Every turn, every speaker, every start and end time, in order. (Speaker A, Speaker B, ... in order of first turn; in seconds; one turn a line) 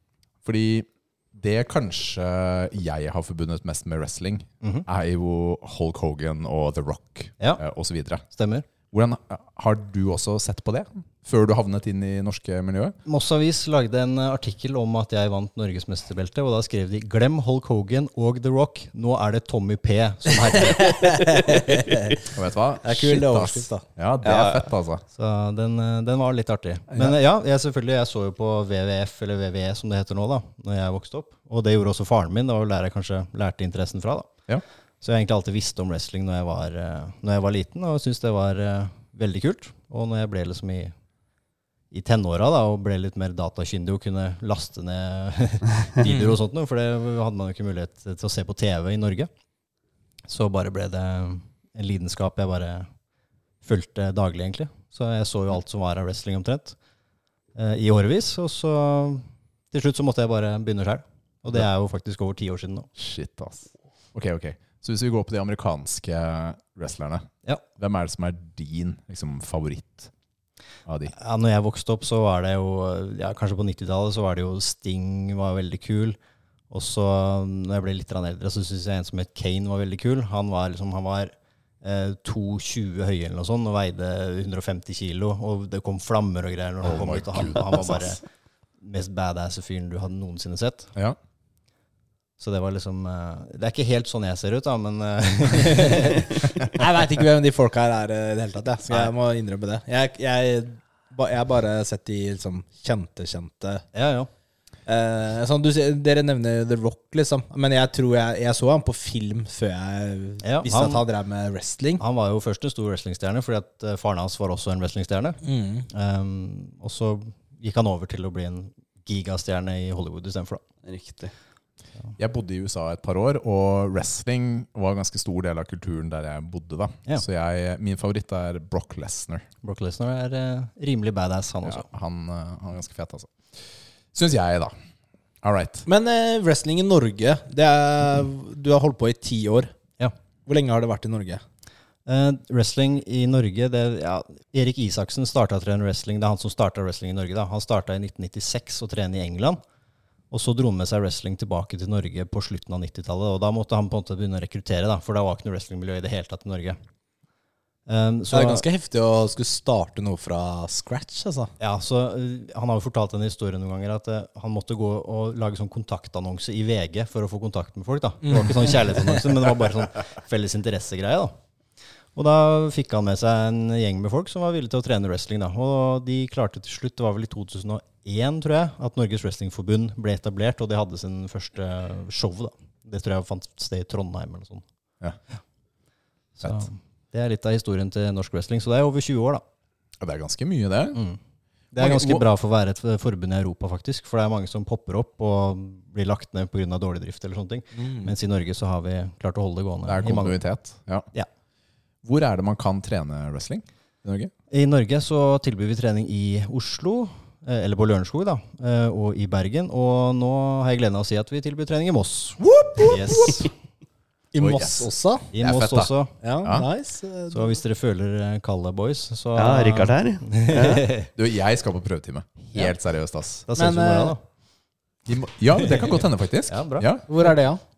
Speaker A: 0.4-8.2
Speaker B: 4.6-4.9
Speaker B: 8.3-8.7
Speaker A: 8.9-12.9
Speaker B: 13.0-21.3
Speaker C: 20.7-22.3
Speaker A: 22.3-25.0
Speaker C: 22.8-23.8
Speaker D: 24.2-24.6
Speaker B: 25.1-34.3
Speaker B: 35.0-40.9
Speaker B: 41.9-49.3
Speaker C: 46.0-46.3
Speaker B: 50.3-52.9
Speaker B: 53.6-56.8
Speaker B: 57.5-62.9
Speaker A: 63.0-67.3
Speaker A: 67.8-70.1
Speaker A: 70.8-71.1
Speaker B: 71.1-76.2
Speaker B: 76.7-88.2
Speaker A: 86.8-88.2
Speaker B: 88.8-90.9
Speaker B: 92.4-96.5
Speaker C: 96.7-103.8
Speaker B: 103.9-104.3
Speaker C: 104.8-112.0
Speaker B: 110.4-111.0
Speaker B: 112.0-120.6
Speaker C: 115.4-115.9
Speaker D: 120.8-121.3
Speaker A: 122.2-129.4
Speaker B: 129.6-131.8
Speaker A: 131.6-133.6
Speaker A: 134.1-134.7
Speaker A: 135.4-135.8
Speaker C: 135.8-139.7
Speaker C: 140.4-141.4
Speaker B: 142.1-149.6
Speaker B: 150.3-156.8
Speaker B: 157.9-158.6
Speaker C: 158.3-161.5
Speaker B: 161.6-171.3
Speaker C: 168.2-169.2
Speaker B: 172.1-184.6
Speaker B: 186.4-189.4
Speaker A: 190.0-191.0
Speaker B: 190.9-191.2
Speaker B: 191.7-200.4
Speaker A: 191.8-192.2
Speaker C: 197.7-198.1
Speaker A: 199.8-201.1
Speaker A: 202.0-204.3
Speaker B: 204.5-213.5
Speaker C: 214.3-215.3
Speaker A: 214.4-215.9
Speaker B: 215.3-216.1
Speaker C: 216.2-217.6
Speaker A: 216.4-216.7
Speaker B: 217.3-221.1
Speaker D: 219.3-220.8
Speaker A: 221.2-223.5
Speaker B: 223.5-224.2
Speaker C: 223.5-224.2
Speaker A: 225.1-227.1
Speaker B: 226.5-226.9
Speaker C: 227.1-227.6